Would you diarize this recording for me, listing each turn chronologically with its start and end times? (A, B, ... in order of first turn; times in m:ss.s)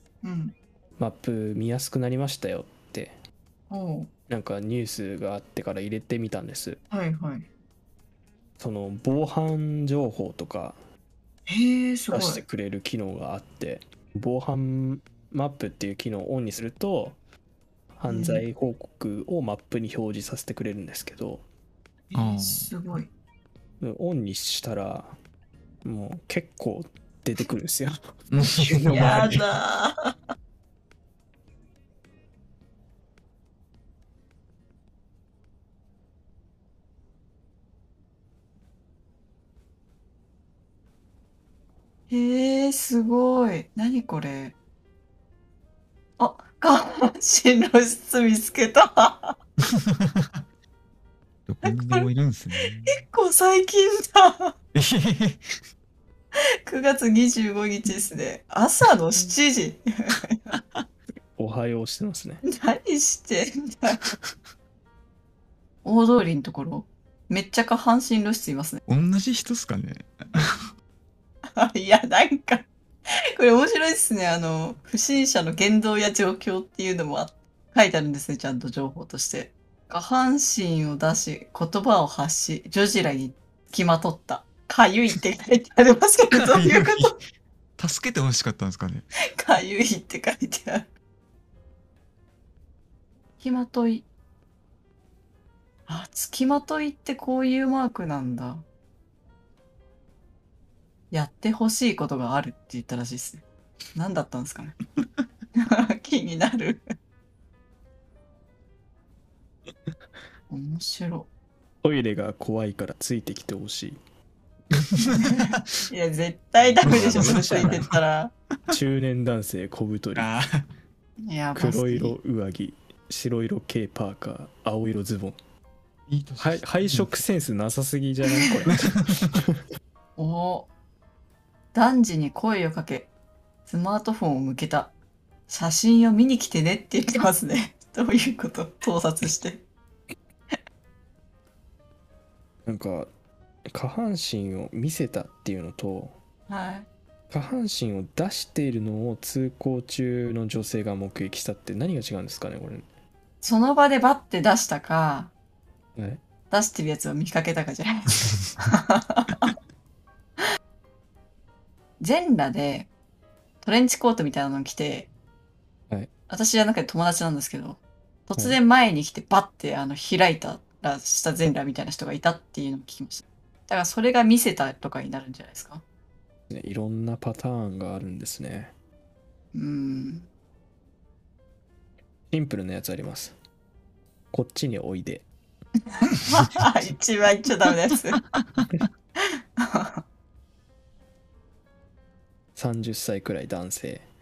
0:00.2-0:00.5 A
0:01.0-0:03.2 B
0:03.7-0:04.1 A
0:04.3-0:06.8 B
0:06.9-0:07.5 A
0:08.6-0:10.8 B
0:11.5-0:12.4 A
0:12.1-0:17.2 B
0:18.0-0:21.5 B
0:18.1-0:18.5 A
0:22.1-0:23.1 A
0:22.1-0:22.7 C
0:23.8-0:25.1 B
0:25.8-0:29.4 B
0:28.3-0:29.4 C
0:28.9-0:29.9 A
0:42.1-0:44.5 A
0:46.2-0:49.4 A
0:51.4-0:53.0 C
0:51.6-0:52.0 A
0:52.9-0:54.5 A
0:54.7-0:55.4 C
0:56.6-1:00.6 A
1:01.4-1:02.4 B
1:02.4-1:04.1 A
1:05.8-1:08.8 A
1:08.9-1:10.5 C
1:11.6-1:12.7 A
1:13.4-1:27.1 A
1:26.3-1:27.1 C
1:27.8-1:29.1 C
1:29.4-1:30.9 A
1:33.4-1:34.0 A
1:35.9-1:38.6 A
1:41.1-1:43.4 A
1:43.9-1:44.8 A
1:45.6-1:46.8 A
1:50.5-1:51.3 A
1:51.8-1:54.0 B
1:54.9-1:55.6 C
1:55.0-1:58.3 A
1:56.8-1:58.0 C
1:56.8-1:57.9 B
1:58.7-2:00.3 B
2:00.1-2:00.7 C
2:01.2-2:02.2 A
2:01.5-2:05.4 B
2:06.1-2:07.2 C
2:06.4-2:09.6 B
2:08.8-2:09.2 C
2:10.2-2:10.7 A
2:11.7-2:13.1 A
2:13.7-2:14.9 A
2:15.5-2:19.6 A
2:22.6-2:23.1 B
2:23.7-2:26.2 B
2:26.5-2:26.9 A
2:27.3-2:32.9 B
2:33.4-2:35.3 A
2:36.0-2:36.2 B
2:36.5-2:39.5 A
2:42.0-2:42.9 A
2:43.6-2:45.1 A
2:46.3-2:55.8 A
2:56.5-2:58.7 B
2:59.5-3:00.3 A
3:02.3-3:03.4 B
3:04.3-3:05.3 B
3:06.0-3:08.2 A
3:09.6-3:10.0 A
3:12.5-3:14.0 B